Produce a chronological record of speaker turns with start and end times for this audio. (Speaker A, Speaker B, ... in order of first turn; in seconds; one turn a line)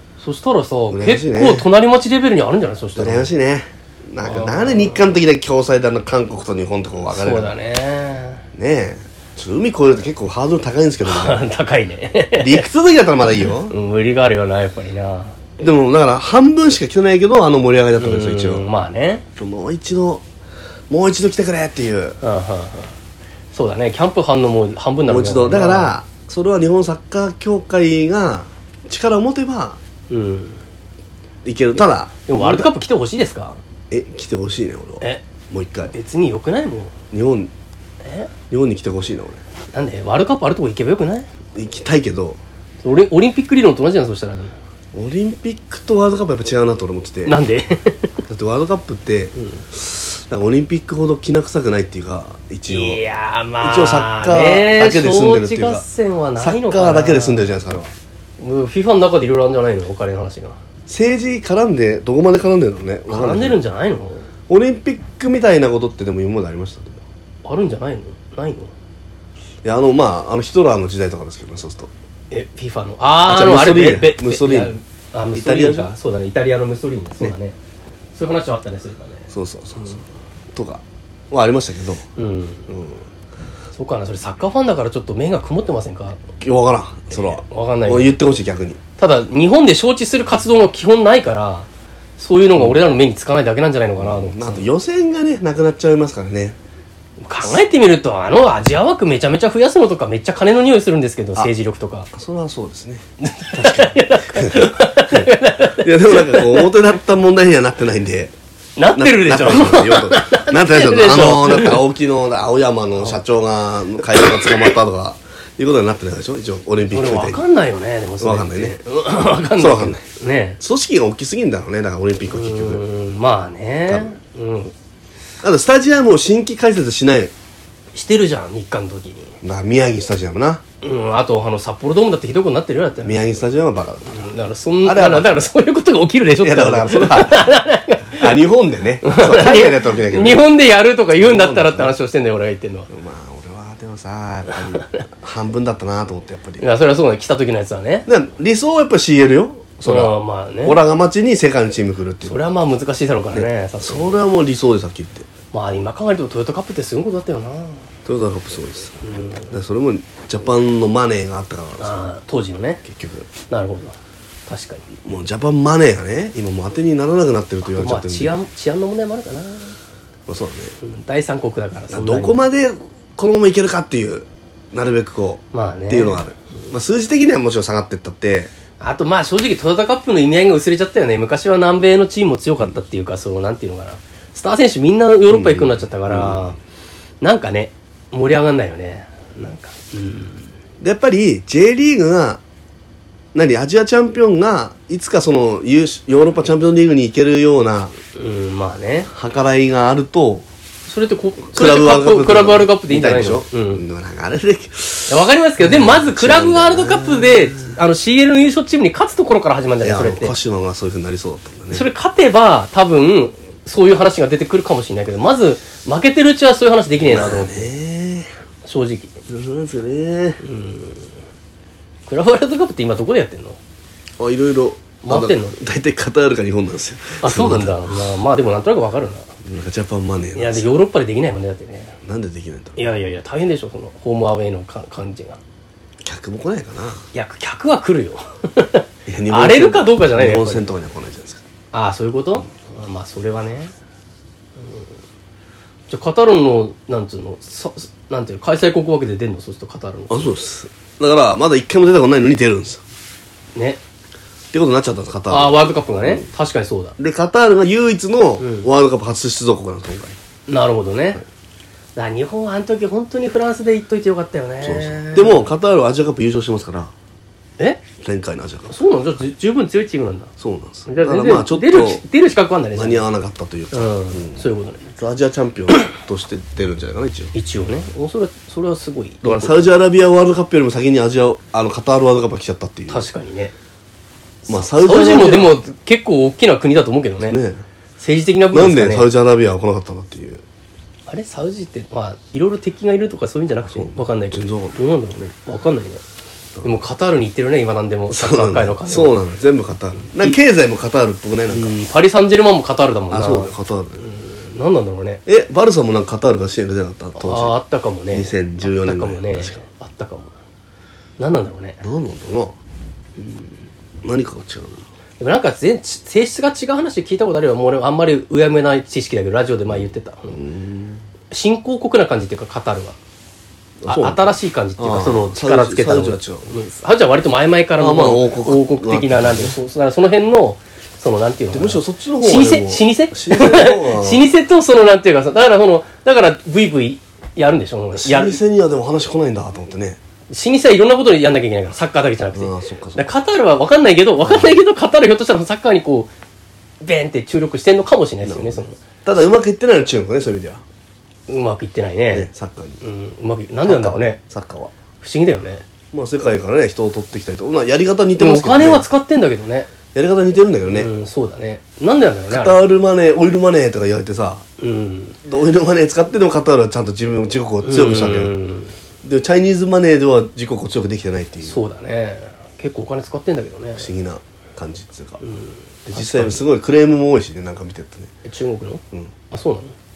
Speaker A: 0.2-3.3
Speaker B: 0.9-1.7
Speaker B: 3.0-7.5
Speaker A: 4.2-5.1
Speaker A: 7.1-8.5
Speaker B: 8.5-11.4
Speaker A: 11.1-12.7
Speaker B: 12.4-13.7
Speaker A: 13.7-15.5
Speaker B: 15.6-18.6
Speaker A: 18.0-19.2
Speaker B: 19.4-20.2
Speaker B: 20.9-22.2
Speaker A: 22.2-23.0
Speaker A: 23.5-25.9
Speaker B: 25.1-29.8
Speaker A: 30.1-30.6
Speaker B: 31.4-32.7
Speaker A: 32.3-33.6
Speaker B: 33.9-35.9
Speaker A: 35.9-36.9
Speaker B: 37.1-37.5
Speaker A: 38.0-38.3
Speaker B: 38.5-39.4
Speaker A: 39.7-41.3
Speaker B: 41.5-42.4
Speaker A: 42.8-44.6
Speaker B: 44.9-47.4
Speaker A: 47.2-48.2
Speaker B: 48.2-53.0
Speaker A: 49.4-49.6
Speaker A: 52.7-57.8
Speaker B: 53.6-55.9
Speaker B: 56.4-57.9
Speaker A: 58.4-60.6
Speaker B: 60.9-63.6
Speaker A: 63.1-64.3
Speaker B: 64.5-67.0
Speaker A: 67.5-68.7
Speaker B: 69.6-71.9
Speaker A: 72.3-77.6
Speaker B: 73.3-74.7
Speaker B: 75.3-75.9
Speaker A: 78.2-80.0
Speaker B: 79.3-82.1
Speaker A: 82.2-82.7
Speaker B: 82.7-83.0
Speaker A: 83.7-86.2
Speaker B: 86.4-88.8
Speaker A: 87.1-88.2
Speaker A: 89.0-94.7
Speaker B: 92.5-92.8
Speaker B: 94.0-96.6
Speaker A: 97.2-102.1
Speaker B: 102.1-108.3
Speaker A: 103.2-106.7
Speaker A: 108.8-111.8
Speaker B: 108.9-117.4
Speaker A: 114.2-114.7
Speaker A: 116.9-120.6
Speaker B: 118.2-118.8
Speaker B: 119.4-120.0
Speaker B: 120.6-122.8
Speaker A: 122.3-124.7
Speaker B: 123.9-124.1
Speaker B: 125.4-127.3
Speaker A: 127.9-129.4
Speaker B: 129.4-130.6
Speaker A: 130.8-133.2
Speaker B: 133.0-134.3
Speaker A: 134.1-138.4
Speaker B: 134.8-135.3
Speaker B: 136.4-137.5
Speaker B: 138.1-140.4
Speaker A: 139.0-142.9
Speaker B: 141.2-141.9
Speaker B: 142.9-146.6
Speaker A: 144.5-145.0
Speaker A: 146.6-148.1
Speaker B: 148.1-152.4
Speaker A: 149.8-150.8
Speaker A: 152.2-154.2
Speaker B: 153.3-155.3
Speaker A: 155.5-157.8
Speaker B: 158.1-162.1
Speaker A: 159.0-159.5
Speaker A: 161.8-162.8
Speaker B: 162.8-163.3
Speaker A: 163.5-164.0
Speaker A: 164.5-164.9
Speaker B: 165.0-168.3
Speaker A: 167.7-169.8
Speaker B: 170.3-170.8
Speaker A: 170.8-172.4
Speaker B: 171.9-178.5
Speaker A: 175.5-176.2
Speaker A: 178.8-186.6
Speaker B: 185.3-186.5
Speaker A: 187.2-190.5
Speaker B: 190.8-192.4
Speaker B: 193.3-197.9
Speaker A: 198.2-199.1
Speaker B: 199.1-200.5
Speaker A: 200.9-203.8
Speaker B: 201.5-207.7
Speaker A: 205.1-210.3
Speaker B: 209.8-211.9
Speaker A: 211.7-217.7
Speaker B: 217.0-218.3
Speaker A: 218.6-219.2
Speaker B: 219.3-220.4
Speaker A: 220.4-221.1
Speaker A: 222.1-223.6
Speaker B: 224.2-227.9
Speaker A: 225.0-225.6
Speaker A: 227.2-229.3
Speaker B: 229.4-230.7
Speaker A: 230.3-232.0
Speaker B: 232.0-232.8
Speaker A: 232.8-235.4
Speaker B: 236.0-237.0
Speaker A: 237.1-240.7
Speaker B: 239.1-241.4
Speaker A: 241.7-243.7
Speaker A: 245.9-250.3
Speaker B: 250.1-252.8
Speaker A: 253.6-253.8
Speaker B: 254.5-256.3
Speaker A: 255.3-257.0
Speaker B: 257.0-260.2
Speaker A: 258.4-258.7
Speaker A: 260.5-261.2
Speaker A: 262.0-265.5
Speaker B: 264.6-266.9
Speaker A: 267.6-267.8
Speaker B: 268.0-268.8
Speaker A: 268.7-270.3
Speaker B: 270.4-272.0
Speaker A: 270.9-273.1
Speaker B: 272.7-277.3
Speaker A: 273.7-274.9
Speaker A: 277.3-279.7
Speaker B: 279.2-283.1
Speaker A: 282.9-283.5
Speaker B: 284.5-285.6
Speaker A: 284.5-287.4
Speaker B: 287.2-287.6
Speaker A: 288.0-289.1
Speaker B: 288.5-290.4
Speaker A: 291.1-296.0
Speaker B: 293.7-294.8
Speaker A: 296.6-299.2
Speaker B: 298.1-301.8
Speaker A: 300.1-300.4
Speaker A: 301.5-305.2
Speaker B: 303.1-304.0
Speaker B: 305.3-307.6
Speaker A: 307.2-310.3
Speaker B: 308.1-309.6
Speaker A: 311.2-311.8
Speaker B: 311.8-312.6
Speaker B: 313.2-313.5
Speaker B: 314.0-314.9
Speaker A: 315.2-320.4
Speaker B: 319.7-321.1
Speaker A: 321.3-323.0
Speaker B: 323.8-326.5
Speaker A: 323.9-338.4
Speaker B: 327.8-329.6
Speaker B: 331.5-334.2
Speaker B: 337.9-340.0
Speaker A: 340.3-346.1
Speaker B: 342.3-343.1
Speaker B: 344.2-344.6
Speaker A: 346.8-348.8
Speaker B: 348.2-350.6
Speaker A: 351.3-352.3
Speaker B: 352.1-352.8
Speaker A: 352.8-354.2
Speaker B: 353.6-354.7
Speaker A: 355.0-355.7
Speaker B: 355.9-358.9
Speaker A: 358.2-359.7
Speaker B: 359.9-360.9
Speaker A: 360.7-362.6
Speaker B: 362.3-364.4
Speaker A: 364.6-365.2
Speaker B: 365.2-368.3
Speaker A: 367.6-368.7
Speaker B: 369.0-371.6
Speaker A: 371.4-373.9
Speaker B: 373.8-375.2
Speaker A: 375.2-376.4
Speaker B: 375.9-378.1
Speaker A: 378.2-379.7